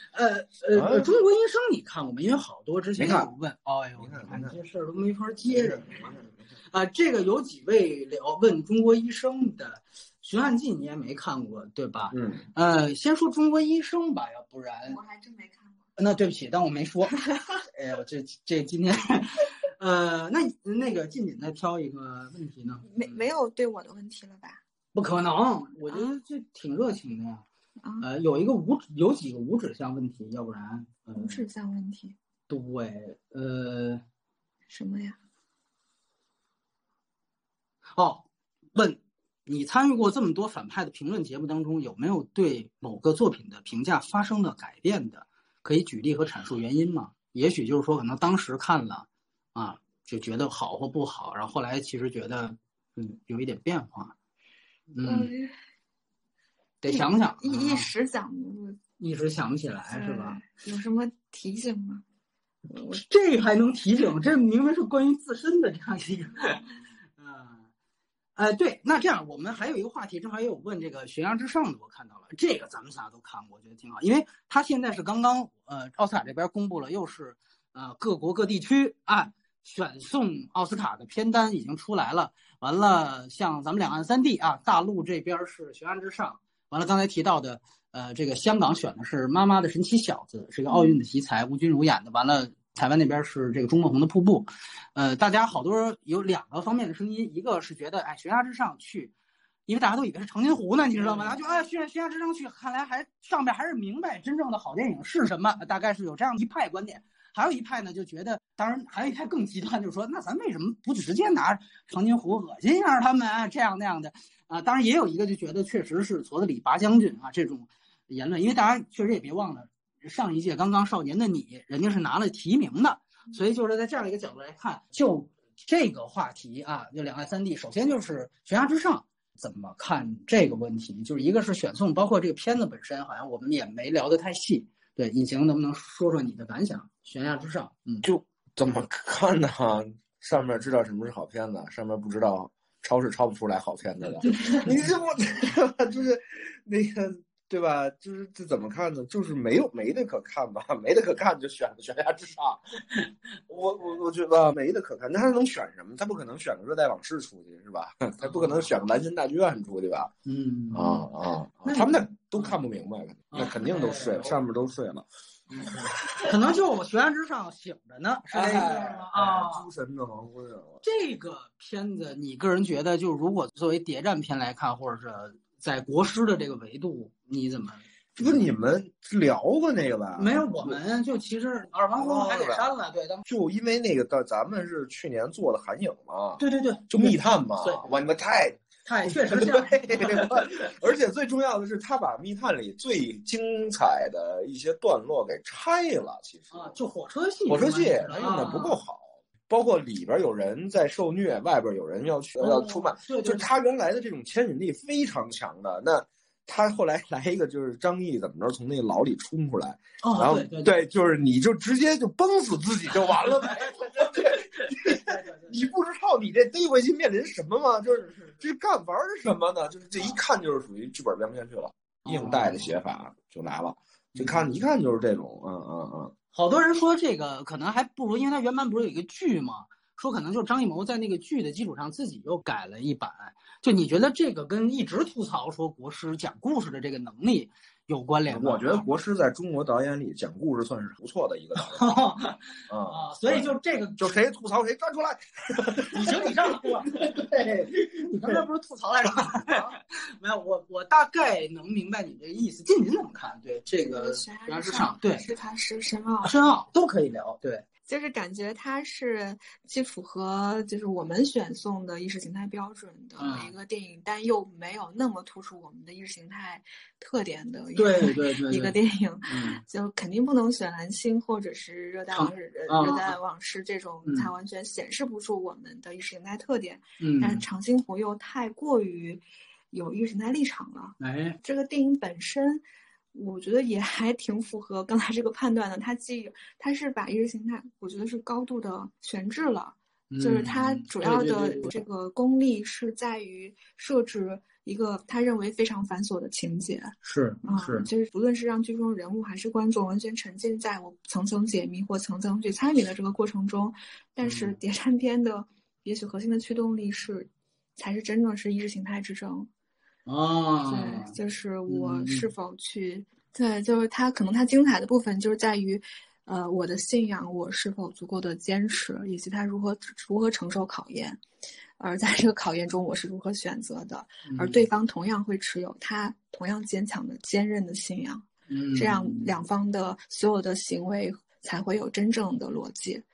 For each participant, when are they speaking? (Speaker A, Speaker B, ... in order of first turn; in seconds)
Speaker A: 0.1-15.0, 16.0-23.1, 24.9-27.4, 28.0-31.4, 32.5-34.0, 38.0-54.1, 54.9-55.3, 56.8-57.9, 59.0-60.4, 62.8-67.6, 68.4-99.1, 99.7-138.1, 144.3-144.6, 158.2-158.6, 160.2-161.0, 161.7-162.5, 163.3-164.4, 165.5-169.7, 170.8-178.4, 180.2-183.2, 186.4-188.0, 188.8-190.3, 196.5-198.8, 202.4-203.5, 210.0-210.8, 214.7-215.7, 222.1-222.7, 224.2-224.6, 226.3-238.9, 241.6-244.1, 245.9-247.0, 248.0-255.3, 256.2-257.6, 263.2-263.5, 267.8-268.8, 269.3-269.6, 272.1-273.2, 274.0-274.3, 277.0-277.4, 281.0-281.4, 290.1-291.8, 297.0-297.9, 304.2-304.6, 310.1-311.1, 311.7-312.3, 324.3-324.6, 328.5-329.3
Speaker B: 0.7-1.1, 3.0-3.3, 4.0-4.5, 5.5-6.2, 12.1-12.4, 138.0-160.1, 160.7-165.1, 165.7-166.2, 168.3-170.8, 178.2-180.8, 181.9-182.7, 183.3-196.7, 197.5-226.1, 238.3-241.9, 242.7-248.4
Speaker C: 14.9-15.7, 22.9-24.6, 31.1-32.1, 34.7-35.2, 55.0-55.6, 56.9-58.8, 59.9-62.0, 90.7-91.0, 253.8-256.4, 257.9-282.6, 283.1-309.5, 310.7-321.2, 321.8-333.0